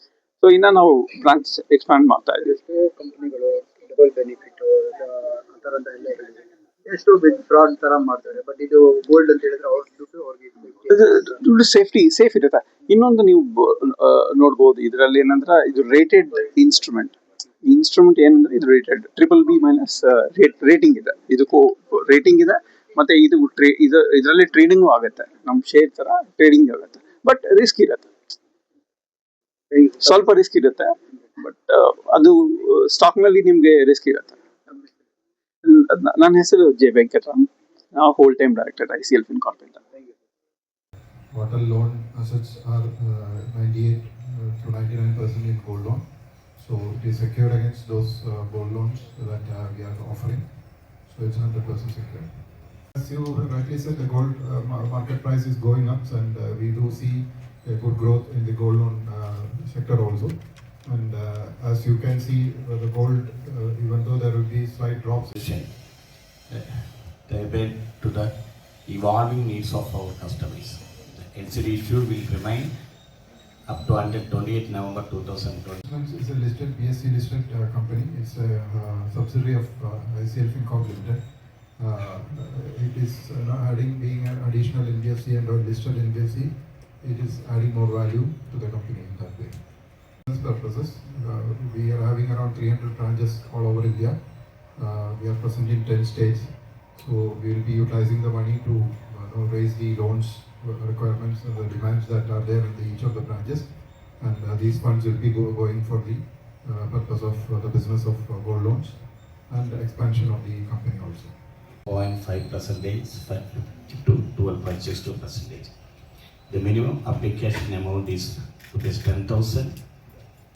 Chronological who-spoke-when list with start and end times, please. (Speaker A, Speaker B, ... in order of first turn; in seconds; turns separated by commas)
Speaker A: 0.4-2.5, Speaker B: 2.4-11.1, Speaker A: 10.9-28.1, Speaker B: 29.7-30.1, Speaker A: 30.0-34.4, Speaker A: 35.6-39.8, Speaker C: 41.3-65.3, Speaker D: 65.3-75.8, Speaker C: 75.8-111.5, Speaker D: 111.8-119.9